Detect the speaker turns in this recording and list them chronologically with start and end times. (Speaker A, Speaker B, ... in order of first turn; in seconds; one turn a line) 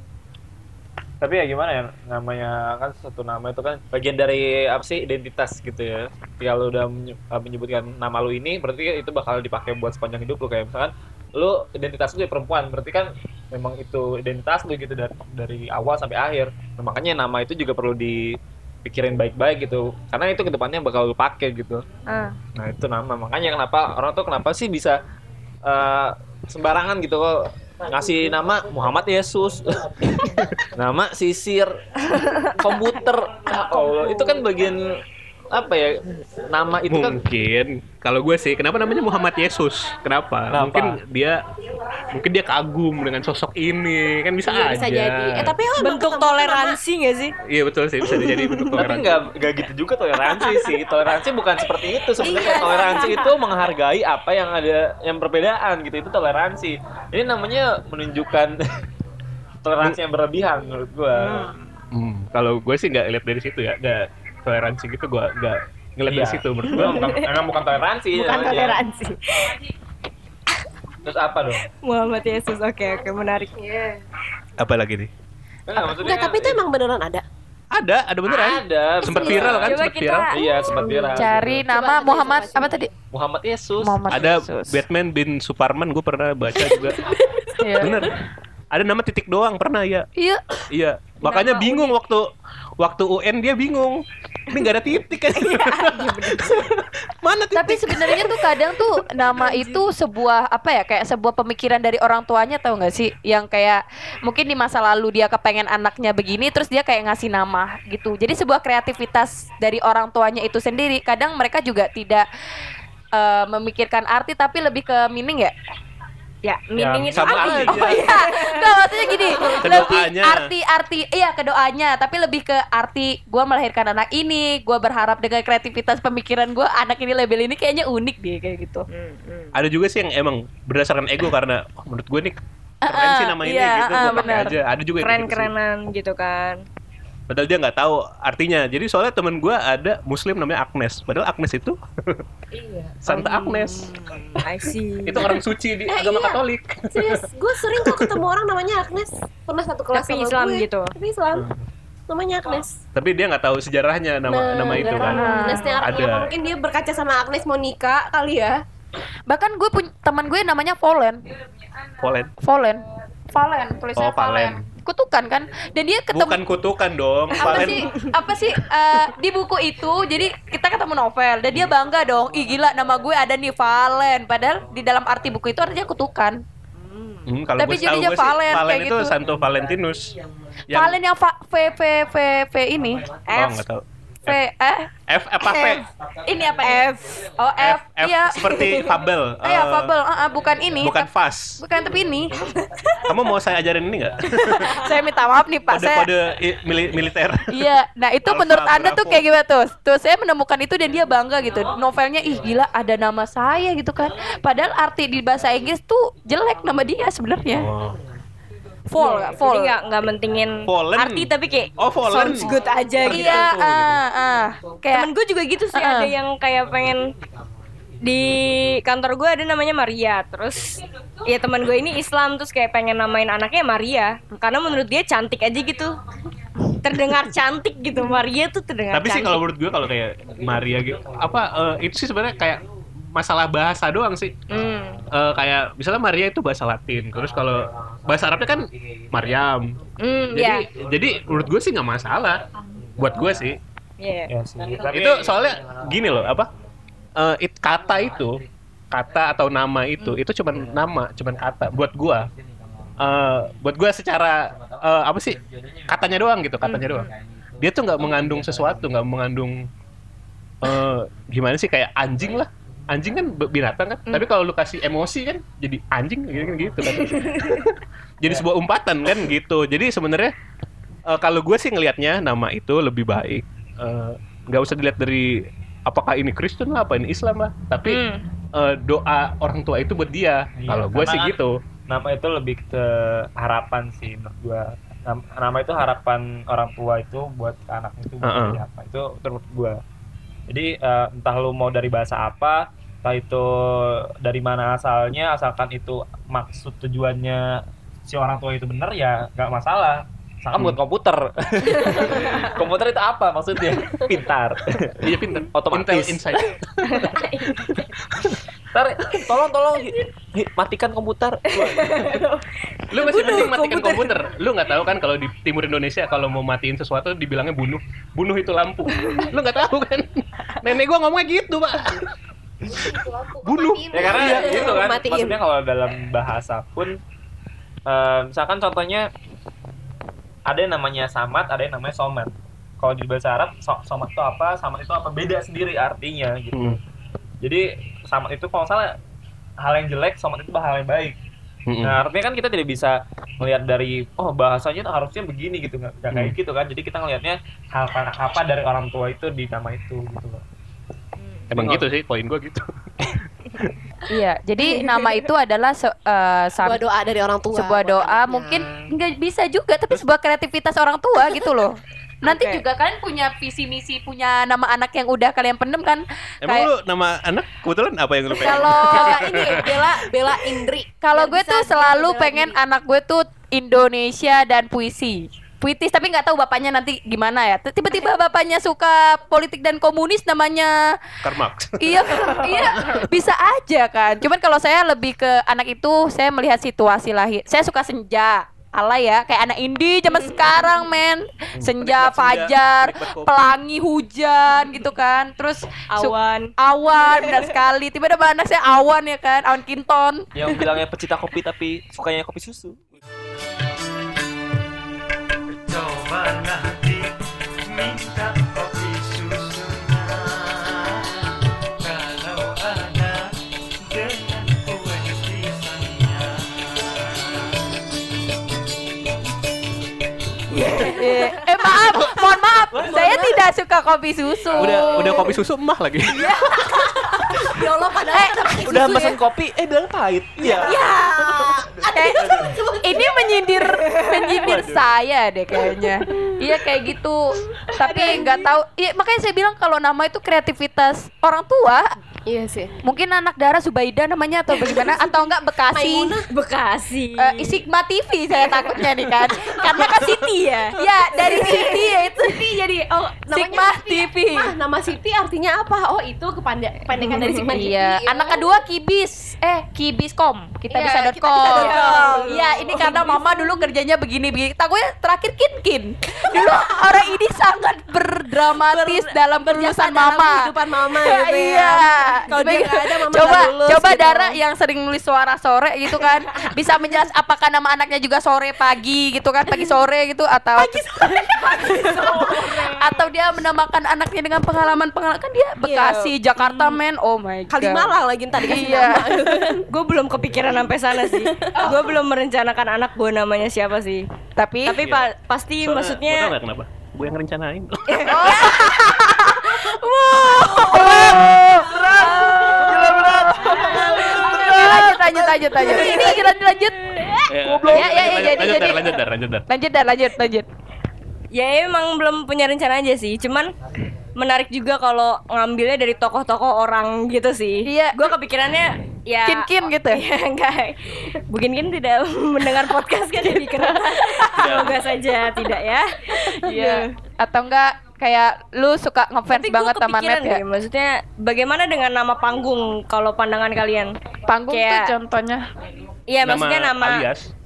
Speaker A: 1.2-18.3
Speaker A: 18.8-21.8
Speaker B: 22.1-22.4
Speaker A: 22.6-25.0
Speaker A: 25.6-31.7
Speaker B: 32.1-32.5
Speaker A: 32.5-34.8
Speaker B: 33.8-34.4
Speaker A: 35.5-37.2
Speaker C: 36.9-41.4
Speaker A: 40.5-41.0
Speaker C: 42.1-45.5
Speaker D: 44.5-46.8
Speaker B: 45.8-47.3
Speaker C: 47.5-49.2
Speaker B: 48.0-48.7
Speaker A: 48.7-58.5
Speaker D: 52.2-53.3
Speaker A: 59.6-61.5
Speaker B: 61.2-61.5
Speaker C: 61.9-67.0
Speaker A: 66.0-68.8
Speaker B: 66.7-67.2
Speaker B: 68.1-69.6
Speaker A: 71.0-71.6
Speaker B: 71.7-73.9
Speaker C: 74.6-75.1
Speaker A: 75.7-76.6
Speaker D: 75.8-77.2
Speaker C: 77.7-80.3
Speaker A: 78.3-81.7
Speaker B: 79.0-81.0
Speaker E: 81.1-82.9
Speaker D: 81.7-82.8
Speaker A: 83.1-84.0
Speaker E: 83.8-84.8
Speaker C: 84.1-87.0
Speaker E: 87.6-87.9
Speaker C: 87.8-88.2
Speaker C: 88.7-90.0
Speaker E: 90.2-90.6
Speaker C: 90.7-92.2
Speaker B: 91.2-91.9
Speaker C: 92.8-98.6
Speaker B: 95.3-96.7
Speaker E: 97.5-112.2
Speaker B: 99.3-99.8
Speaker E: 113.1-115.5
Speaker B: 116.4-118.7
Speaker A: 116.8-117.9
Speaker C: 117.1-118.0
Speaker E: 117.7-128.8
Speaker D: 119.0-119.9
Speaker C: 119.5-120.5
Speaker B: 128.9-129.5
Speaker C: 129.5-135.5
Speaker E: 132.8-134.5
Speaker B: 134.0-134.4
Speaker B: 135.0-136.6
Speaker C: 137.3-142.2
Speaker C: 143.0-144.4
Speaker B: 143.1-145.4
Speaker C: 145.0-147.2
Speaker D: 145.9-151.5
Speaker C: 147.8-148.2
Speaker B: 149.9-150.9
Speaker D: 152.1-152.8
Speaker C: 152.9-156.3
Speaker D: 154.2-158.6
Speaker B: 154.9-155.7
Speaker E: 155.1-155.7
Speaker E: 159.3-161.2
Speaker C: 162.0-162.3
Speaker E: 162.4-166.4
Speaker C: 164.0-164.6
Speaker C: 166.1-167.8
Speaker E: 167.4-176.4
Speaker C: 177.3-180.1
Speaker E: 177.6-179.1
Speaker C: 180.7-181.0
Speaker E: 180.7-183.1
Speaker B: 183.3-183.6
Speaker C: 183.3-184.4
Speaker E: 184.3-184.9
Speaker C: 185.1-185.8
Speaker B: 186.3-187.2
Speaker E: 186.4-186.7
Speaker E: 187.4-188.7
Speaker C: 187.6-189.9
Speaker B: 188.5-188.9
Speaker E: 189.4-192.4
Speaker C: 190.8-191.6
Speaker B: 192.6-193.0
Speaker C: 193.1-194.8
Speaker E: 194.4-196.1
Speaker C: 195.7-197.5
Speaker E: 197.5-207.7
Speaker C: 198.2-199.2
Speaker C: 207.5-208.0
Speaker E: 208.9-209.7
Speaker B: 209.0-213.5
Speaker C: 210.7-213.9
Speaker E: 213.1-215.1
Speaker B: 214.8-217.0
Speaker E: 215.7-216.1
Speaker B: 218.0-225.9
Speaker B: 226.8-229.4
Speaker C: 228.9-232.6
Speaker C: 233.1-234.4
Speaker B: 234.5-235.0
Speaker C: 235.1-239.8
Speaker B: 240.0-240.7
Speaker C: 240.3-242.4
Speaker C: 243.0-243.6
Speaker B: 244.0-244.3
Speaker A: 244.3-245.4
Speaker C: 244.9-246.5
Speaker C: 247.2-248.3
Speaker C: 248.9-252.2
Speaker C: 253.0-259.6
Speaker B: 256.6-257.1
Speaker C: 260.6-270.3
Speaker B: 266.8-267.6
Speaker C: 271.1-278.0
Speaker B: 277.9-278.1
Speaker C: 278.5-281.6
Speaker A: 280.6-281.4
Speaker A: 281.9-289.8
Speaker C: 288.2-288.6
Speaker A: 290.5-306.3
Speaker B: 301.7-302.5
Speaker C: 305.0-307.8
Speaker B: 306.9-307.7
Speaker A: 308.7-311.6
Speaker B: 311.5-314.2
Speaker C: 312.9-322.1
Speaker B: 318.9-319.3
Speaker D: 322.7-325.4
Speaker C: 323.4-324.8
Speaker A: 323.9-327.0
Speaker A: 327.9-329.1
Speaker A: 330.5-336.8
Speaker C: 336.5-336.8
Speaker A: 337.4-338.9
Speaker A: 339.6-341.1
Speaker C: 341.7-342.0
Speaker A: 341.8-350.4
Speaker C: 351.5-353.7
Speaker A: 351.6-351.9
Speaker E: 354.1-356.8
Speaker D: 356.6-358.9
Speaker E: 357.5-366.7
Speaker B: 362.2-362.6
Speaker C: 366.4-369.9
Speaker D: 368.3-372.6
Speaker E: 368.4-369.2
Speaker E: 371.0-380.8
Speaker C: 381.2-383.1
Speaker E: 381.8-400.2
Speaker C: 391.6-393.5
Speaker B: 395.9-396.5
Speaker B: 397.1-397.4
Speaker A: 400.3-402.8
Speaker A: 405.7-407.1
Speaker A: 407.8-410.3
Speaker A: 411.9-413.1
Speaker A: 414.0-415.6
Speaker B: 420.6-421.4
Speaker D: 420.7-421.0
Speaker E: 420.8-425.0
Speaker D: 421.9-423.4
Speaker D: 424.5-425.4
Speaker C: 424.6-426.3
Speaker D: 426.3-429.2
Speaker E: 428.1-429.1
Speaker A: 428.6-430.8
Speaker D: 430.4-433.3
Speaker B: 430.6-431.5
Speaker E: 430.8-441.9
Speaker B: 433.9-434.3
Speaker C: 434.4-434.9
Speaker B: 437.7-438.5
Speaker D: 442.2-442.7
Speaker E: 442.8-446.1
Speaker D: 444.6-446.3
Speaker B: 446.3-447.6
Speaker E: 447.2-450.2
Speaker B: 449.5-451.7
Speaker E: 450.7-452.4
Speaker D: 451.2-458.5
Speaker E: 453.3-454.5
Speaker B: 456.9-457.6
Speaker E: 457.5-480.8
Speaker D: 460.7-463.7
Speaker B: 461.4-462.3
Speaker D: 466.3-466.7
Speaker D: 468.5-474.4
Speaker D: 480.6-482.9
Speaker B: 481.6-482.5
Speaker E: 482.5-489.5
Speaker D: 485.7-486.7
Speaker D: 487.5-489.6
Speaker B: 489.7-494.1
Speaker D: 491.2-491.8
Speaker E: 494.4-494.8
Speaker B: 494.6-496.3
Speaker C: 494.8-495.0
Speaker C: 495.6-499.1
Speaker B: 497.9-498.8
Speaker E: 498.1-499.4
Speaker D: 499.6-500.8
Speaker E: 500.4-502.8
Speaker C: 500.9-501.8
Speaker B: 502.1-502.7
Speaker A: 502.6-503.8
Speaker E: 503.3-507.1
Speaker D: 503.6-504.7
Speaker C: 504.2-504.5
Speaker A: 504.8-505.3
Speaker D: 505.5-506.3
Speaker A: 507.3-508.0
Speaker C: 507.5-509.4
Speaker E: 507.7-510.5
Speaker B: 511.3-513.5
Speaker B: 514.1-526.9
Speaker E: 517.6-518.1
Speaker E: 519.2-520.0
Speaker E: 523.6-524.3
Speaker C: 524.4-524.8
Speaker E: 526.4-530.4
Speaker B: 529.3-533.9
Speaker E: 534.3-535.5
Speaker B: 534.5-534.9
Speaker B: 536.1-537.1
Speaker C: 536.2-537.3